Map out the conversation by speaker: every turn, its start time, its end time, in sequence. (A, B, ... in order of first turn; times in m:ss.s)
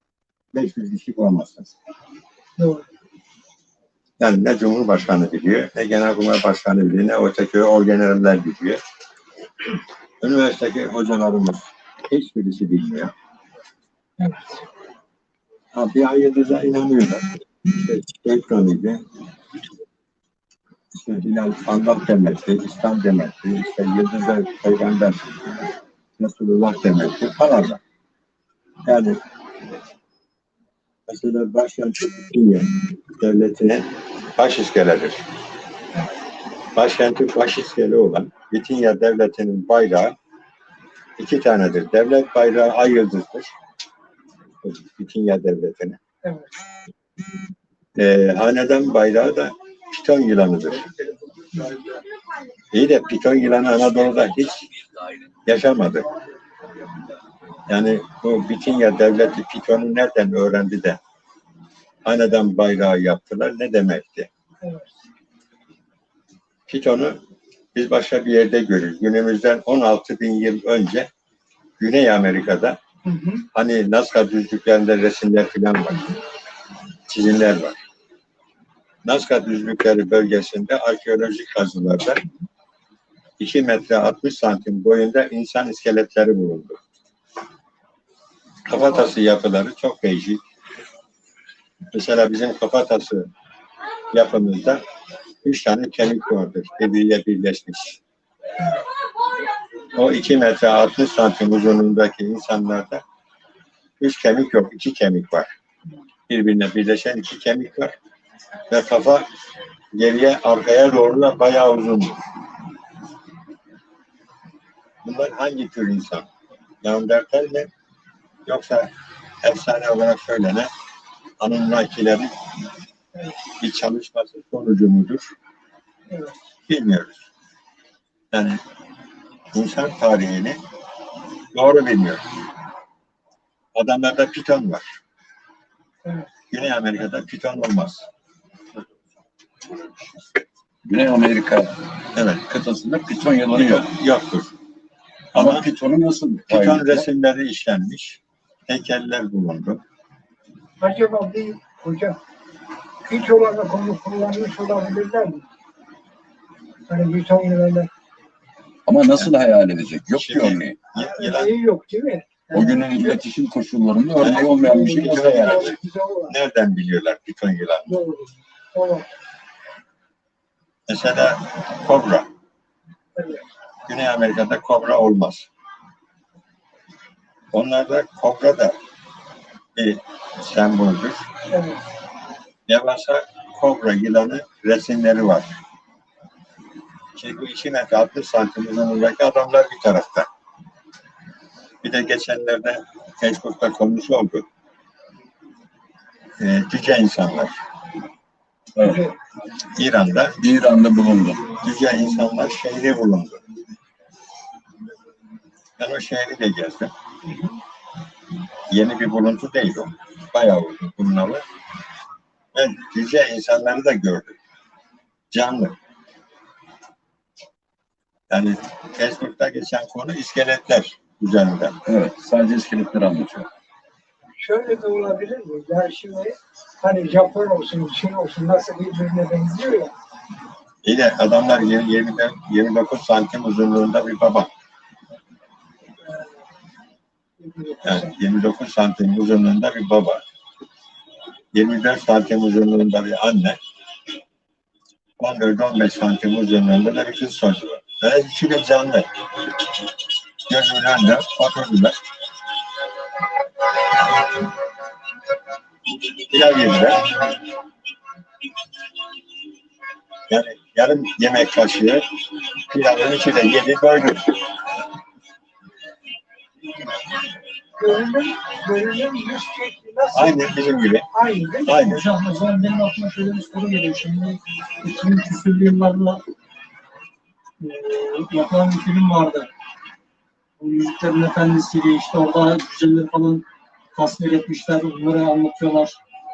0:00.5-0:01.7 A
0:02.6-0:02.8 B
0:04.2-0:08.8 A
0:10.2-0:13.1 A
0:14.2-0:14.6 B
0:15.7-0:19.0 A
0:21.0-0:25.6 A
0:26.2-0:27.8 A
0:28.9-0:29.2 A
0:31.1-0:35.2 A
0:36.8-0:40.2 A
0:41.2-0:43.5 A
0:44.6-0:46.0 A
0:46.2-0:46.5 B
0:48.0-0:50.9 A
0:52.7-0:54.7 A
0:55.5-0:56.1 A
0:57.7-1:01.0 A
1:02.0-1:04.3 A
1:04.6-1:05.0 B
1:06.7-1:07.2 A
1:07.7-1:11.1 A
1:11.8-1:12.8 A
1:13.1-1:13.4 B
1:13.5-1:16.1 A
1:17.1-1:17.8 A
1:19.0-1:22.2 A
1:23.4-1:26.8 A
1:28.7-1:30.4 A
1:31.9-1:33.3 A
1:34.1-1:34.8 A
1:35.4-1:38.0 A
1:39.9-1:43.0 A
1:44.0-1:45.5 A
1:46.3-1:47.9 A
1:48.7-1:49.3 A
1:49.9-1:52.2 A
1:55.0-1:56.3 A
1:56.8-1:57.7 A
1:58.5-1:58.9 A
1:59.4-2:00.7 A
2:01.4-2:02.3 A
2:03.6-2:05.3 A
2:06.7-2:07.2 A
2:08.3-2:08.6 A
2:09.5-2:10.6 A
2:11.5-2:12.2 A
2:13.8-2:14.9 A
2:16.5-2:18.0 A
2:20.9-2:21.8 C
2:22.1-2:22.5 A
2:22.4-2:23.9 C
2:23.5-2:24.5 A
2:25.3-2:25.7 A
2:25.4-2:27.1 C
2:26.5-2:29.8 A
2:30.8-2:32.2 B
2:33.1-2:35.4 B
2:36.9-2:37.9 B
2:38.9-2:40.8 C
2:40.1-2:41.5 A
2:41.0-2:43.2 B
2:42.5-2:45.8 C
2:44.2-2:45.7 A
2:44.3-2:46.3 B
2:46.3-2:48.0 A
2:47.9-2:49.1 B
2:50.9-2:52.3 A
2:53.2-2:53.4 B
2:53.9-2:55.5 A
2:57.5-2:58.8 A
2:59.8-3:01.2 A
3:01.5-3:01.8 B
3:02.7-3:05.5 A
3:07.2-3:10.3 A
3:11.8-3:14.5 A
3:16.4-3:17.6 A
3:18.8-3:19.1 C
3:18.8-3:19.1 B
3:19.7-3:20.4 A
3:20.4-3:21.4 C
3:21.6-3:23.4 A
3:25.8-3:26.9 A
3:27.2-3:27.6 B
3:28.7-3:31.4 A
3:32.6-3:34.4 A
3:35.3-3:35.8 A
3:38.3-3:41.8 A
3:41.8-3:43.5 C
3:44.4-3:49.9 B
3:50.8-3:54.5 A
3:57.4-3:58.1 B
3:57.8-4:00.2 A
4:01.5-4:03.6 A
4:05.2-4:09.1 A
4:10.5-4:12.0 A
4:16.1-4:17.3 A
4:20.3-4:22.0 A
4:22.6-4:24.3 A
4:27.8-4:30.4 B
4:30.1-4:31.1 A
4:31.1-4:31.8 B
4:31.6-4:32.0 A
4:31.9-4:36.2 D
4:37.6-4:39.5 D
4:40.6-4:46.0 D